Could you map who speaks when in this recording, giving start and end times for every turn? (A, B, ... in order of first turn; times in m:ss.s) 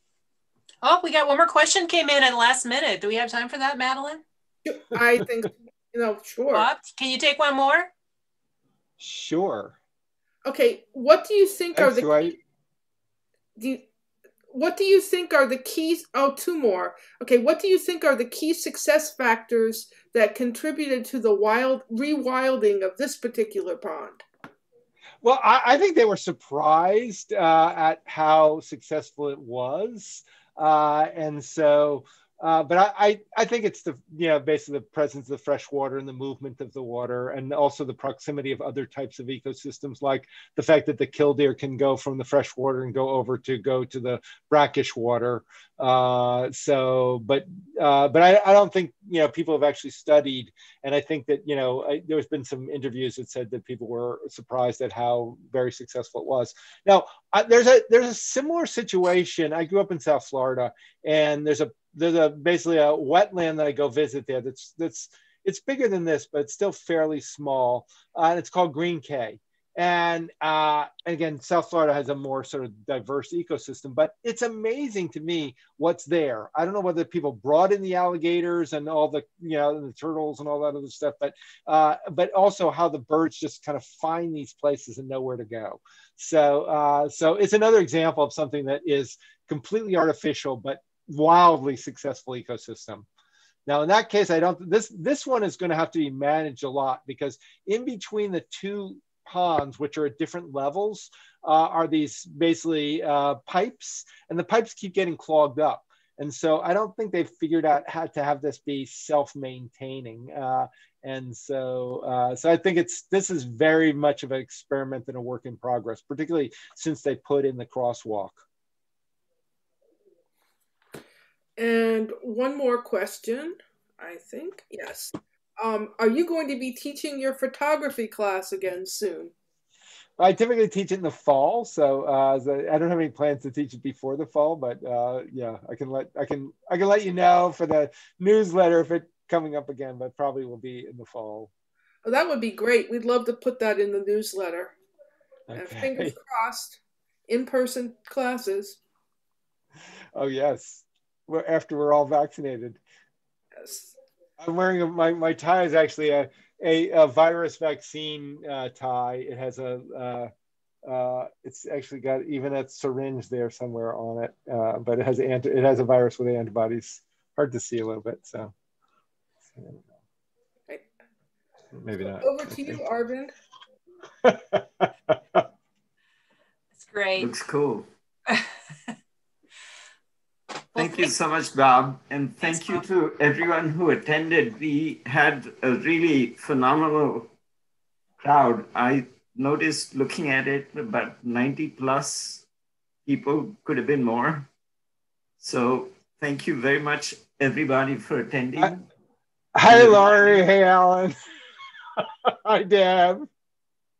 0:00.8-0:04.2 A
0:04.6-0:06.7 B
0:06.5-0:07.9 A
0:09.0-0:09.8 C
0:10.4-0:12.4 B
0:11.7-0:12.4 C
0:13.6-0:13.8 B
0:14.5-0:24.2 B
0:25.2-1:33.1 C
1:33.7-1:58.4 C
2:01.6-2:09.3 B
2:10.2-2:21.5 C
2:22.0-2:24.7 B
2:25.5-2:26.1 C
2:25.6-2:28.8 B
2:30.1-2:32.8 C
2:33.6-2:33.9 B
2:34.4-2:40.3 C
2:40.8-2:48.5 C
2:49.5-2:49.8 C
2:51.7-2:52.8 C
2:52.0-2:53.3 B
2:54.2-2:55.4 C
2:56.8-2:57.3 A
2:57.2-2:57.8 D
3:00.7-3:01.1 A
3:00.8-3:07.3 D
3:02.4-3:02.8 A
3:08.2-3:12.4 D
3:13.0-3:14.5 D
3:15.4-3:18.8 D
3:19.5-3:21.2 C
3:19.6-3:20.4 D
3:22.0-3:23.3 C